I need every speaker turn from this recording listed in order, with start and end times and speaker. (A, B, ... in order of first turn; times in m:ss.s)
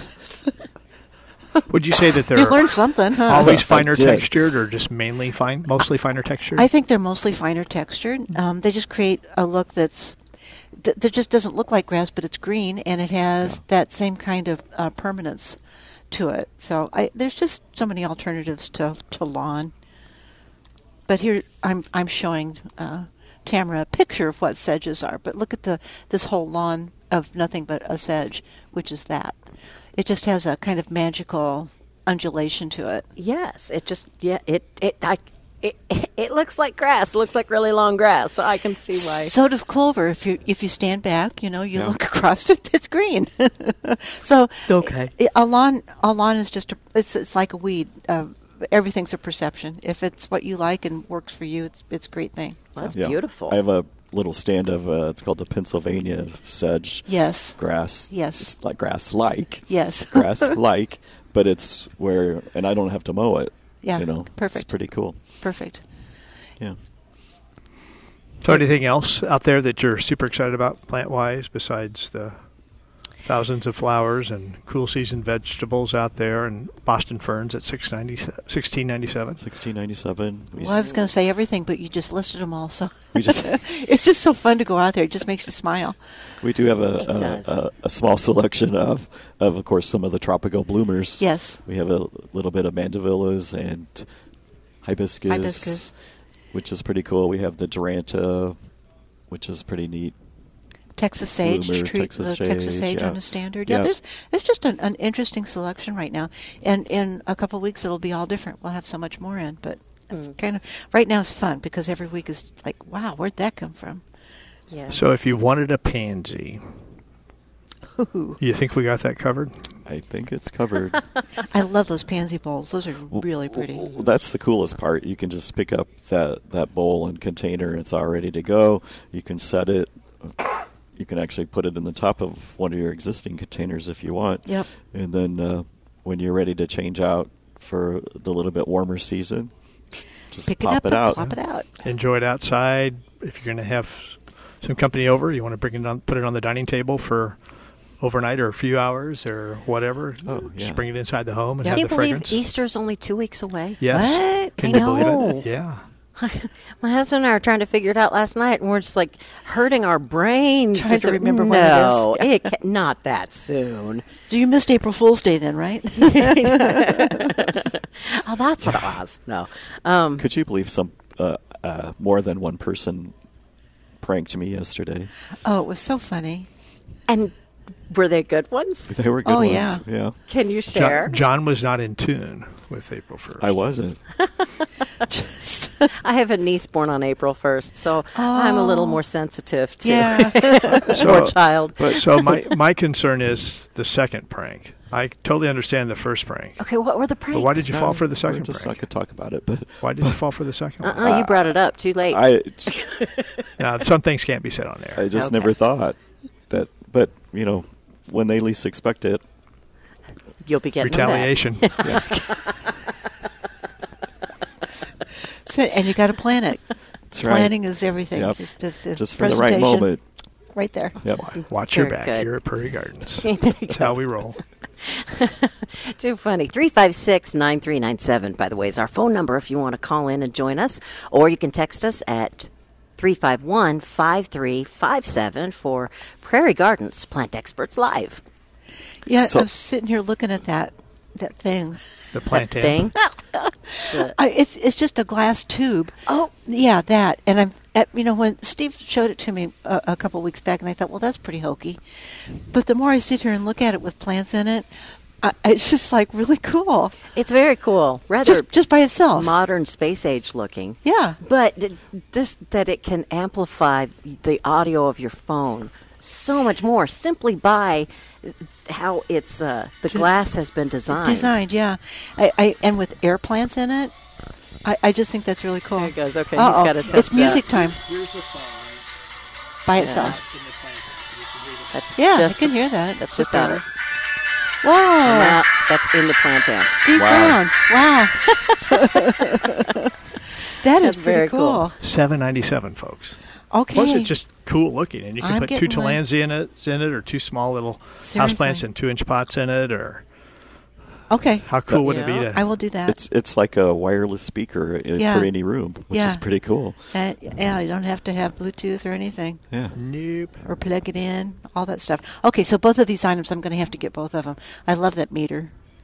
0:01.7-0:06.7 A
0:02.3-0:03.6 B
0:03.3-0:04.4 C
0:06.6-0:10.2 B
0:10.8-0:15.6 B
0:16.1-0:19.7 B
0:21.1-0:29.4 B
0:30.0-0:33.0 B
0:33.2-0:39.3 D
0:38.9-0:52.9 B
0:44.7-0:45.1 D
0:52.8-0:53.6 D
0:52.9-1:05.2 C
0:57.1-0:57.6 B
0:58.1-0:58.5 B
0:59.7-1:00.6 B
1:03.8-1:04.7 B
1:05.4-1:05.8 B
1:08.4-1:12.4 A
1:13.2-1:19.4 A
1:19.4-1:20.8 C
1:20.6-1:26.0 B
1:23.1-1:23.6 C
1:26.4-1:34.1 C
1:27.0-1:27.6 D
1:31.2-1:31.6 B
1:34.8-1:35.9 C
1:35.3-1:35.9 B
1:36.5-1:38.6 C
1:39.3-1:40.1 C
1:41.0-1:54.0 B
1:41.4-1:43.9 C
1:54.7-1:55.0 D
1:54.9-1:56.6 A
1:58.0-1:58.4 B
1:58.4-1:59.5 A
1:59.8-2:01.0 C
2:01.4-2:03.9 B
2:03.1-2:19.5 C
2:20.3-2:21.4 C
2:20.5-2:21.7 B
2:21.8-2:27.4 A
2:28.0-2:32.4 A
2:30.2-2:30.8 C
2:31.6-2:33.8 D
2:33.8-2:35.8 A
2:33.9-2:34.9 B
2:34.6-2:35.5 D
2:36.2-2:44.1 D
2:40.7-2:42.4 B
2:44.3-2:47.5 B
2:46.0-2:50.2 D
2:50.2-2:53.1 C
2:54.0-2:55.1 C
2:55.4-2:56.5 B
2:57.1-2:57.3 D
2:57.9-2:58.9 D
2:58.9-3:00.2 C
2:59.2-2:59.8 B
3:00.3-3:01.2 D
3:00.7-3:03.5 A
3:03.4-3:04.0 C
3:05.1-3:05.9 B
3:06.0-3:12.3 D
3:08.1-3:09.0 B
3:09.8-3:11.0 B
3:10.9-3:16.6 A
3:11.8-3:12.1 C
3:16.6-3:17.7 D
3:17.3-3:18.8 A
3:17.6-3:20.2 C
3:19.8-3:21.2 A
3:20.8-3:23.4 D
3:21.0-3:21.5 C
3:22.1-3:22.8 C
3:23.6-3:25.1 A
3:24.9-3:26.0 C
3:25.1-3:25.5 D
3:26.5-3:29.2 C
3:30.4-3:32.8 D
3:30.8-3:32.1 A
3:35.4-3:36.6 B
3:37.1-3:37.6 C
3:37.2-3:39.9 B
3:38.1-3:40.0 C
3:40.5-3:41.0 B
3:41.0-3:41.3 C
3:41.2-3:44.4 A
3:41.4-3:42.3 D
3:43.2-3:44.0 D
3:44.8-3:58.2 D
3:59.0-4:01.8 B
3:59.0-3:59.5 C
4:02.1-4:02.9 A
4:02.3-4:03.0 D
4:03.7-4:14.7 B
4:03.8-4:04.2 D
4:15.2-4:17.0 B
4:17.1-4:18.4 D
4:18.2-4:19.3 B
4:19.1-4:31.3 D
4:20.8-4:21.2 B
4:30.9-4:33.9 B
4:34.6-4:37.8 B
4:35.8-4:37.4 D
4:37.0-4:38.9 A
4:39.6-4:40.2 B
4:39.8-4:40.2 D
4:39.9-4:41.7 A
4:41.7-4:43.6 D
4:42.0-4:43.6 B
4:44.6-4:45.4 B
4:45.0-4:46.9 D
4:46.7-4:49.9 B
4:46.9-4:47.5 C
4:48.3-4:49.5 D
4:50.5-4:51.8 B
4:50.8-4:51.6 D
4:51.8-4:53.2 A
4:53.5-4:54.1 B
4:53.7-5:00.0 A
4:55.2-4:56.0 B
4:58.0-4:58.6 B
5:01.1-5:01.5 B
5:01.4-5:02.5 A
5:01.8-5:02.3 D
5:02.3-5:03.0 B
5:02.8-5:06.9 C
5:05.0-5:05.3 B
5:05.9-5:06.2 B
5:06.9-5:09.4 B
5:09.5-5:09.8 C
5:09.7-5:10.4 A
5:10.4-5:15.5 B